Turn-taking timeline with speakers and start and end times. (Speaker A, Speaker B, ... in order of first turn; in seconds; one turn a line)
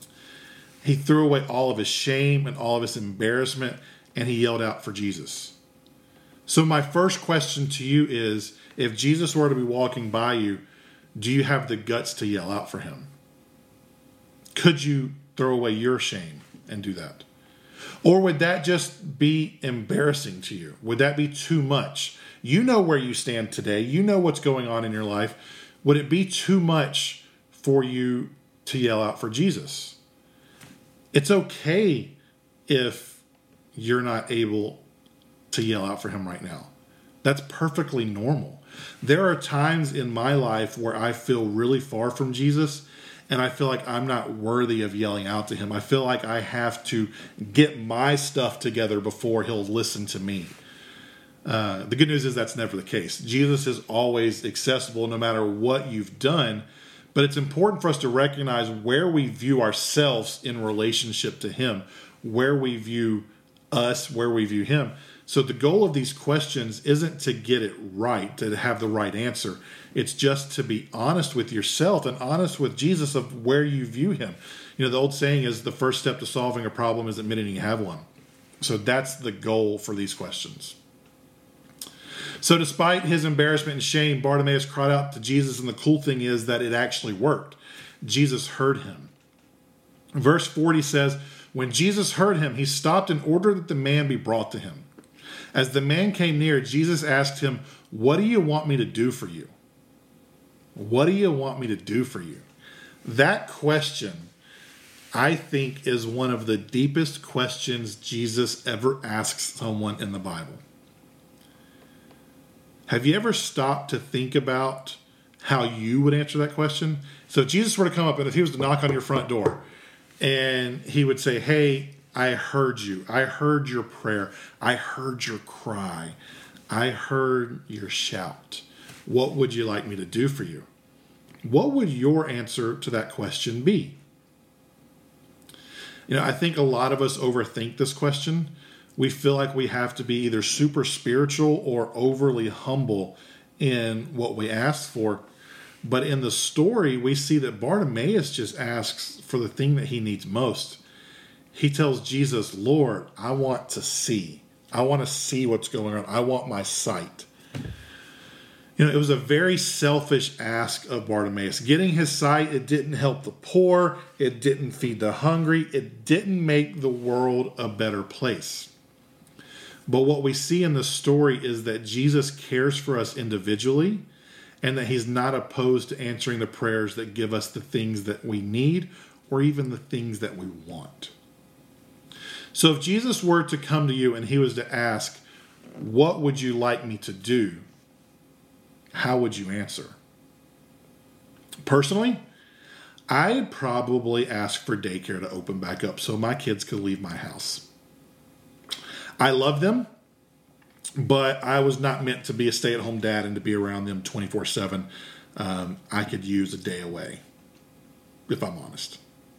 Speaker A: 0.8-5.5
Speaker A: 6.5-10.6
Speaker A: 11.2-13.1
Speaker A: 14.5-17.2
Speaker A: 18.0-30.0
Speaker A: 31.1-32.2
Speaker A: 32.7-33.2
Speaker A: 33.7-34.8
Speaker A: 35.5-36.7
Speaker A: 37.2-50.5
Speaker A: 51.4-78.0
Speaker A: 78.6-80.8
Speaker A: 82.4-89.1
Speaker A: 90.1-94.9
Speaker A: 95.5-99.5
Speaker A: 100.7-102.5
Speaker A: 103.0-104.3
Speaker A: 105.1-110.6
Speaker A: 112.9-119.6
Speaker A: 120.2-126.2
Speaker A: 126.7-130.7
Speaker A: 131.4-134.0
Speaker A: 136.1-145.2
Speaker A: 145.8-150.8
Speaker A: 151.5-157.3
Speaker A: 158.8-168.7
Speaker A: 169.9-174.1
Speaker A: 174.6-181.1
Speaker A: 182.5-185.2
Speaker A: 185.8-187.6
Speaker A: 188.9-190.0
Speaker A: 191.6-192.2
Speaker A: 193.1-197.7
Speaker A: 199.2-199.9
Speaker A: 201.0-207.2
Speaker A: 208.3-209.0